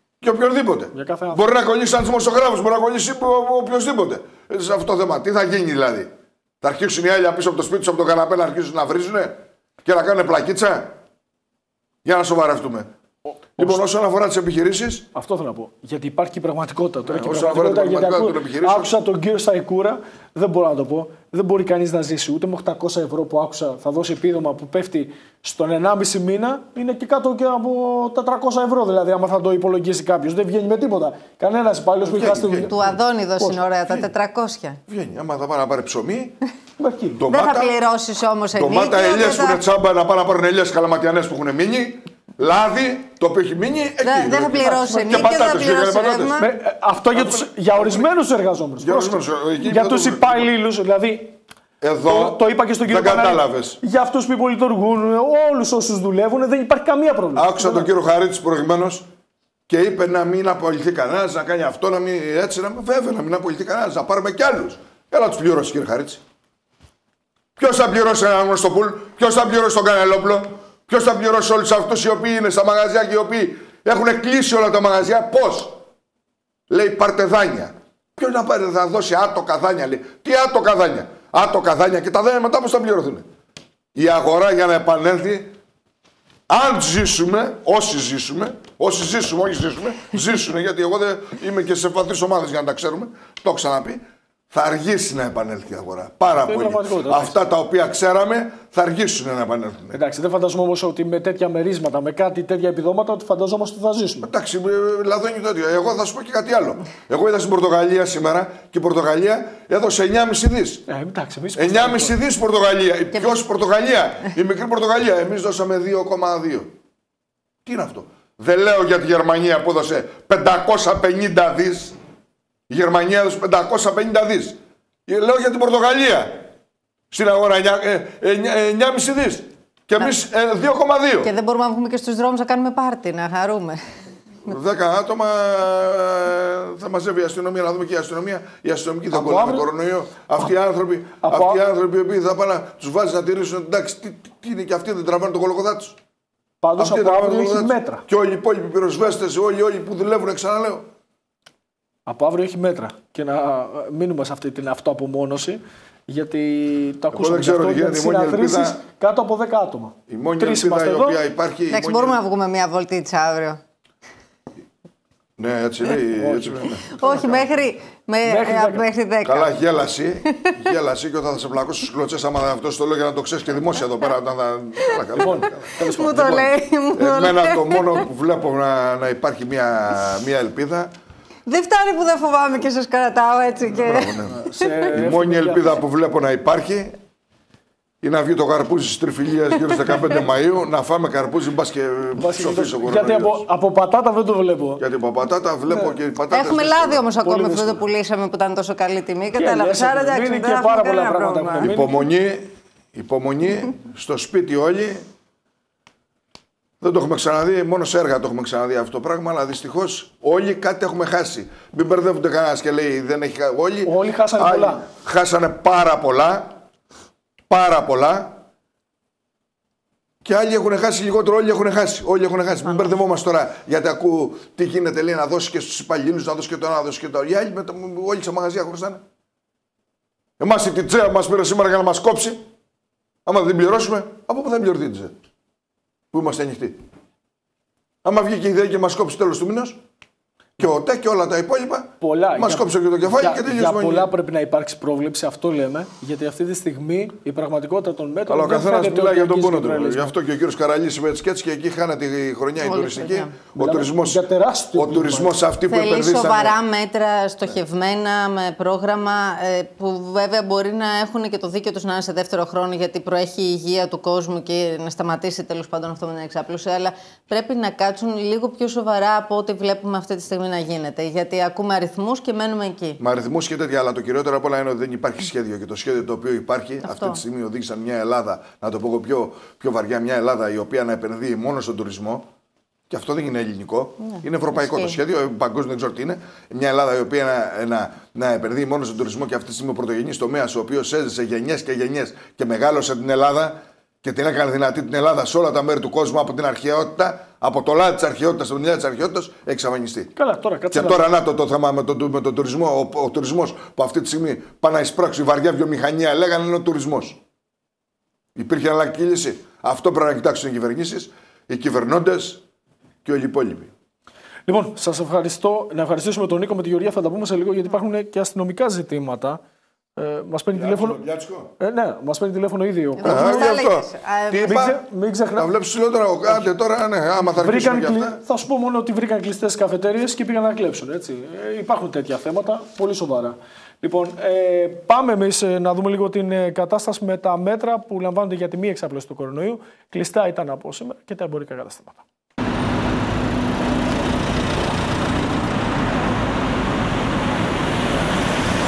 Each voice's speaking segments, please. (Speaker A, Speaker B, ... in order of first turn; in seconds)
Speaker A: 0.2-10.9, 12.1-12.9, 13.6-15.1, 17.1-18.9, 32.0-32.8, 34.9-36.4, 37.1-37.8, 38.5-46.5, 47.1-48.1, 48.8-50.5, 51.8-53.8, 57.4-59.1, 59.7-66.2, 67.6-75.8, 76.7-83.3, 84.0-85.5, 86.5-100.0, 104.2-110.8, 111.5-116.7, 117.7-122.0, 122.7-126.5, 127.1-131.3, 134.5-146.0, 146.8-150.9, 157.1-158.8, 160.1-162.2, 165.4-166.9, 169.2-180.9, 183.8-184.4, 184.9-187.0, 188.0-193.5, 194.8-197.1, 201.6-205.1, 206.8-216.6, 217.5-218.4, 220.2-229.0, 230.4-232.4, 233.3-235.2, 236.1-236.8, 238.0-239.8, 240.6-244.1, 248.3-256.6, 273.0-282.3, 282.9-300.1, 300.7-307.2, 308.4-312.4, 313.1-313.7, 320.5-321.5, 323.0-324.8, 325.4-328.2
Speaker B: 0.9-1.5, 13.3-13.8, 15.1-33.9, 36.8-37.2, 44.6-45.4, 46.4-51.4, 52.1-57.9, 96.4-97.4, 99.9-104.3, 110.9-112.2, 139.1-139.7, 141.2-141.6, 146.6-148.0, 152.1-161.2, 166.1-167.5, 168.2-168.9, 175.2-176.5, 184.0-185.8, 192.2-194.8, 195.7-196.0, 197.2-197.8, 199.3-202.0, 213.9-214.8, 242.0-250.2, 253.6-255.4, 300.2-301.1, 314.5-319.4, 320.0-321.0, 321.6-323.6, 324.4-325.5, 327.2-342.0
Speaker C: 32.6-34.8, 37.3-39.6, 44.0-46.5, 131.2-133.8, 161.7-163.6, 166.9-169.6, 174.8-175.4, 175.9-178.1, 181.5-184.9, 196.3-201.7, 252.6-253.3, 255.7-273.0, 276.8-277.2, 284.0-285.0, 323.0-324.6